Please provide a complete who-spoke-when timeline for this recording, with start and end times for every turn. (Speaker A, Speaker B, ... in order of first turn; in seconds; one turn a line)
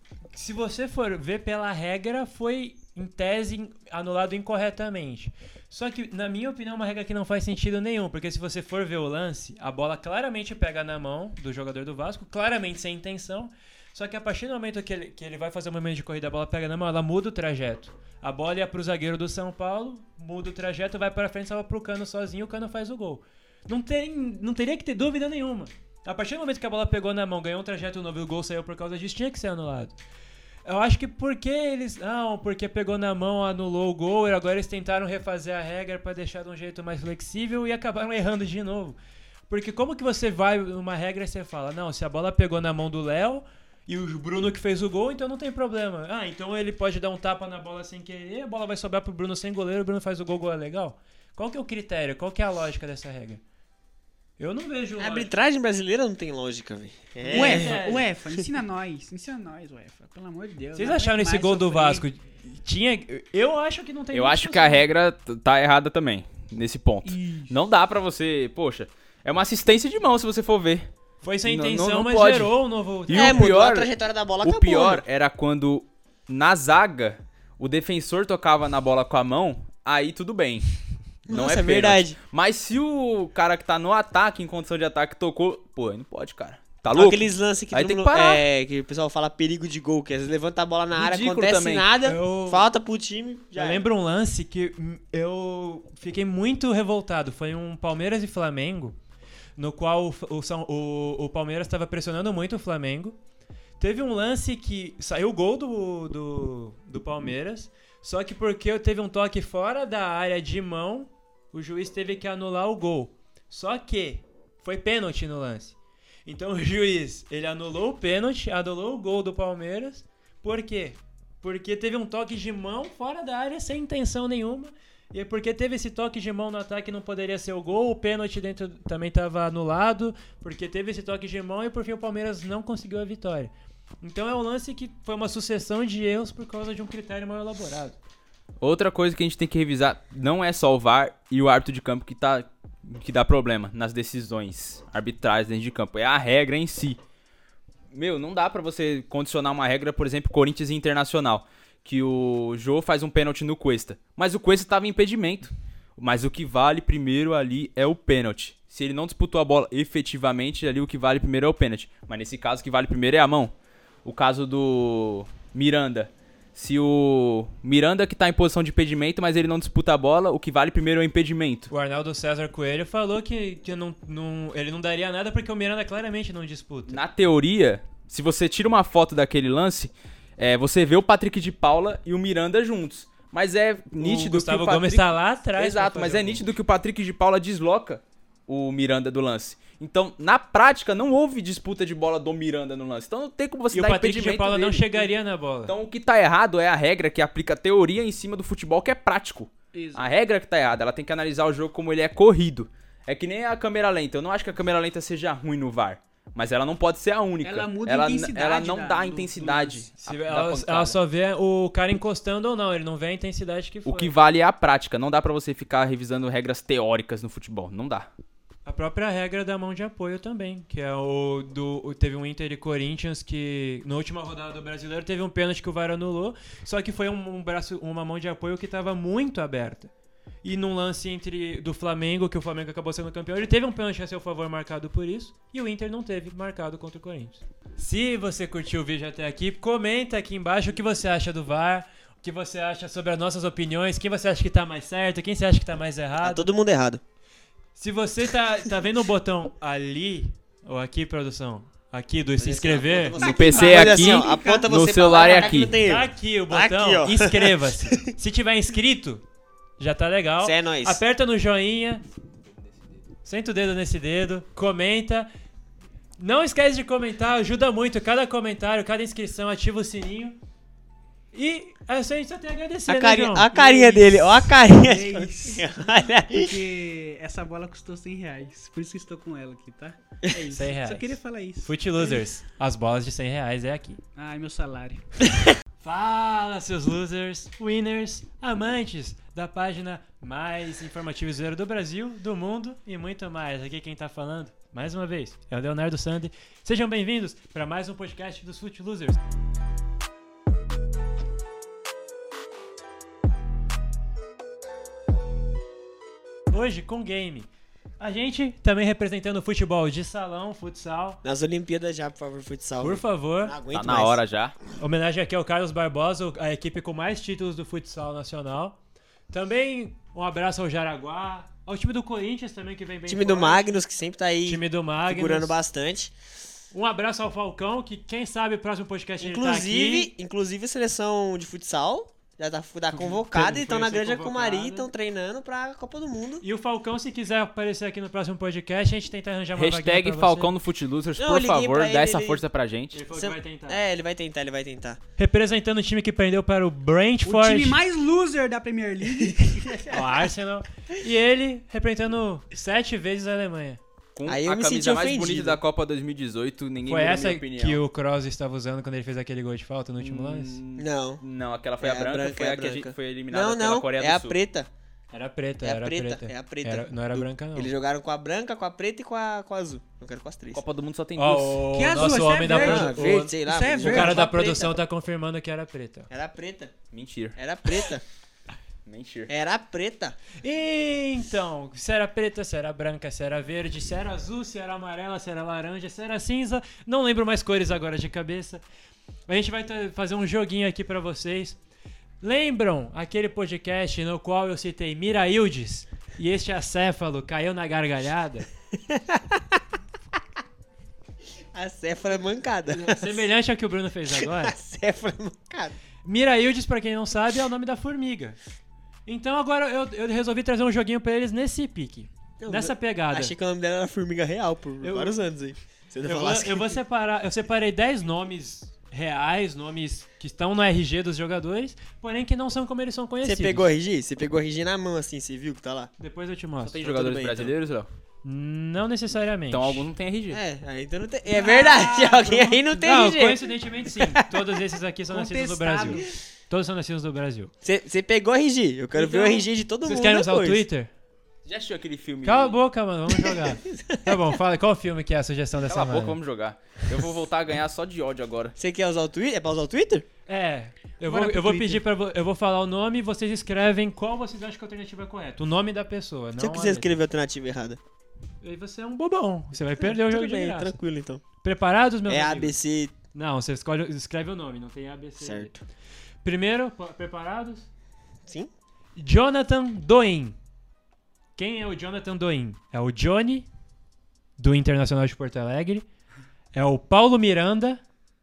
Speaker A: 0.3-29.9
Speaker A: 30.6-39.0
Speaker A: 39.5-53.4
Speaker A: 54.4-55.3
Speaker B: 55.0-57.8
Speaker A: 57.2-58.1
Speaker C: 57.3-62.0
Speaker A: 60.7-64.8
Speaker D: 64.1-70.9
Speaker C: 67.0-67.5
Speaker A: 71.2-73.5
Speaker D: 71.5-72.5
Speaker D: 73.1-73.9
Speaker B: 73.1-75.0
Speaker D: 74.4-80.7
Speaker D: 81.3-88.4
Speaker B: 81.3-82.2
Speaker B: 86.9-93.8
Speaker D: 90.9-91.9
Speaker A: 92.0-92.7
Speaker A: 93.5-99.0
Speaker A: 99.6-103.2
Speaker A: 103.8-138.0
Speaker D: 138.6-147.0
Speaker D: 147.9-163.5
Speaker D: 164.0-171.7
Speaker A: 171.7-177.0
Speaker D: 176.9-195.1
Speaker A: 184.0-186.4
Speaker A: 193.7-195.7
Speaker D: 195.7-211.0
Speaker C: 199.7-200.1
Speaker C: 207.4-209.8
Speaker A: 210.0-214.1
Speaker D: 213.8-218.1
Speaker A: 218.6-229.9
Speaker A: 230.4-246.5
Speaker B: 246.2-247.0
Speaker A: 247.8-253.2
Speaker B: 252.4-258.0
Speaker D: 253.2-255.7
Speaker C: 253.2-254.7
Speaker A: 255.8-259.2
Speaker A: 259.8-262.0
Speaker B: 260.4-261.0
Speaker D: 262.4-262.9
Speaker A: 263.2-265.3
Speaker A: 266.2-270.4
Speaker A: 271.3-273.5
Speaker B: 272.9-276.6
Speaker C: 273.5-282.2
Speaker A: 280.5-284.0
Speaker C: 284.1-285.1
Speaker A: 285.8-299.2
Speaker A: 306.5-311.2
Speaker B: 311.2-314.2
Speaker A: 312.8-313.6
Speaker D: 313.7-314.6
Speaker A: 314.8-318.8
Speaker A: 319.3-323.7
Speaker B: 323.1-326.1
Speaker A: 324.4-325.6
Speaker A: 326.7-330.1
Speaker B: 329.2-336.4
Speaker A: 332.9-334.9
Speaker A: 336.4-340.5
Speaker D: 339.6-343.0
Speaker B: 341.2-342.4
Speaker A: 342.9-343.8
Speaker B: 343.1-345.0
Speaker A: 345.2-347.8
Speaker C: 347.2-349.8
Speaker B: 349.6-350.2
Speaker A: 349.9-353.8
Speaker D: 354.1-357.8
Speaker B: 354.3-355.6
Speaker A: 356.9-360.6
Speaker D: 360.0-364.4
Speaker B: 360.8-361.2
Speaker B: 361.8-364.7
Speaker A: 365.1-367.7
Speaker B: 365.6-370.6
Speaker D: 370.5-371.6
Speaker A: 371.2-376.1
Speaker C: 371.7-374.3
Speaker B: 372.4-374.8
Speaker B: 376.1-376.7
Speaker D: 376.9-377.4
Speaker B: 377.4-378.0
Speaker D: 378.9-379.3
Speaker B: 379.3-380.2
Speaker A: 380.4-388.6
Speaker A: 389.3-391.6
Speaker A: 392.2-398.5
Speaker B: 398.9-399.4
Speaker B: 401.5-403.3
Speaker A: 402.7-404.5
Speaker B: 404.1-405.8
Speaker A: 406.0-408.4
Speaker A: 409.1-413.3
Speaker B: 412.4-416.8
Speaker A: 414.8-415.2
Speaker A: 416.0-423.7
Speaker B: 423.2-425.9
Speaker A: 426.0-426.8
Speaker D: 426.6-427.9
Speaker B: 426.8-427.5
Speaker A: 428.2-429.9
Speaker D: 429.5-430.4
Speaker B: 430.3-434.5
Speaker A: 431.3-437.5
Speaker C: 435.1-436.1
Speaker B: 437.6-440.6
Speaker A: 439.0-440.9
Speaker D: 441.4-442.6
Speaker A: 442.2-446.2
Speaker B: 443.1-444.3
Speaker D: 445.6-448.5
Speaker B: 448.6-450.1
Speaker A: 450.3-456.9
Speaker C: 451.1-451.8
Speaker B: 456.4-457.8
Speaker A: 458.4-460.8
Speaker B: 459.8-461.2
Speaker A: 461.4-462.6
Speaker B: 462.1-462.9
Speaker A: 463.1-465.5
Speaker B: 465.2-465.6
Speaker A: 466.2-467.7
Speaker B: 468.2-468.5
Speaker A: 468.9-470.4
Speaker A: 471.4-473.5
Speaker A: 474.4-475.9
Speaker A: 476.5-477.8